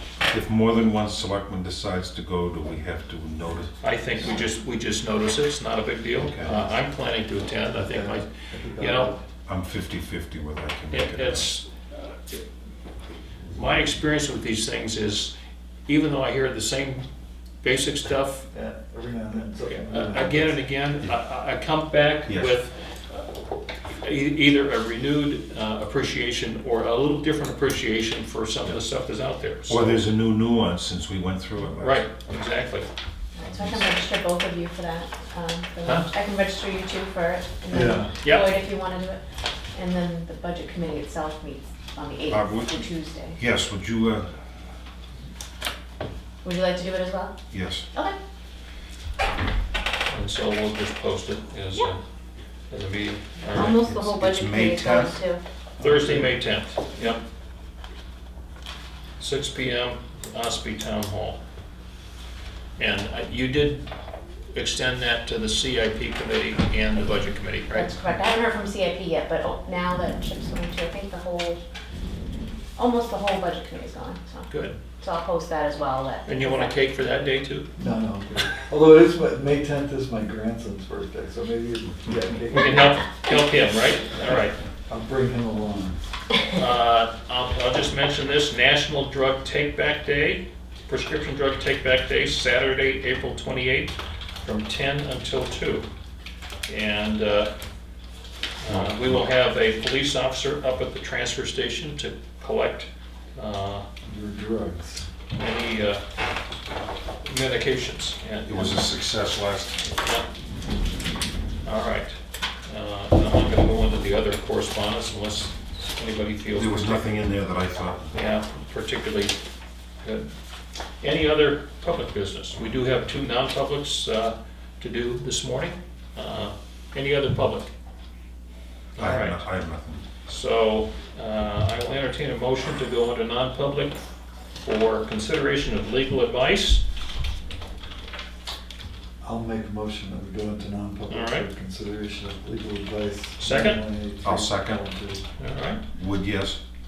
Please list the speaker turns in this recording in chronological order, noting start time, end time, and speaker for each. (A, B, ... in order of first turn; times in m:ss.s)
0:00.2-0:03.8 A
0:03.8-0:09.1 B
0:06.2-0:06.5 A
0:06.4-0:06.8 C
0:07.7-0:09.2 C
0:09.4-0:11.5 A
0:10.9-0:12.4 B
0:13.5-0:15.3 B
0:15.9-0:17.0 B
0:17.6-0:18.5 B
0:18.5-0:20.6 C
0:19.6-0:23.3 B
0:22.3-0:22.6 A
0:23.9-0:30.0 B
0:29.7-0:31.9 A
0:31.8-0:32.9 B
0:33.3-0:39.2 D
0:37.7-0:38.1 C
0:38.2-0:38.5 B
0:39.7-0:43.4 D
0:42.3-0:42.8 A
0:43.4-0:44.3 A
0:46.4-0:47.3 D
0:47.5-0:47.8 A
0:50.1-0:52.0 B
0:52.7-0:53.8 B
0:53.5-0:55.4 D
0:53.5-0:55.2 A
0:55.8-0:56.3 C
0:55.8-0:57.2 B
0:59.2-1:01.4 B
1:02.8-1:03.9 B
1:04.5-1:07.9 B
1:07.7-1:11.6 D
1:12.8-1:16.7 D
1:14.5-1:14.8 B
1:16.2-1:17.7 B
1:17.8-1:23.0 C
1:22.5-1:24.6 B
1:24.8-1:26.0 C
1:26.5-1:35.9 B
1:36.7-1:37.5 B
1:38.6-1:43.8 B
1:38.7-1:39.2 A
1:44.0-1:45.1 C
1:45.4-1:46.0 B
1:47.2-1:48.8 B
1:48.4-1:49.8 A
1:50.0-1:50.3 B
1:51.6-1:57.1 B
1:56.5-1:58.2 A
1:58.1-1:59.4 B
2:00.0-2:00.3 B
2:01.0-2:07.7 B
2:09.0-2:09.4 B
2:09.0-2:10.0 A
2:10.2-2:14.0 B
2:14.6-2:16.8 B
2:19.2-2:25.2 C
2:21.1-2:21.5 B
2:23.4-2:23.8 B
2:24.2-2:24.8 A
2:25.4-2:25.8 B
2:26.0-2:26.6 A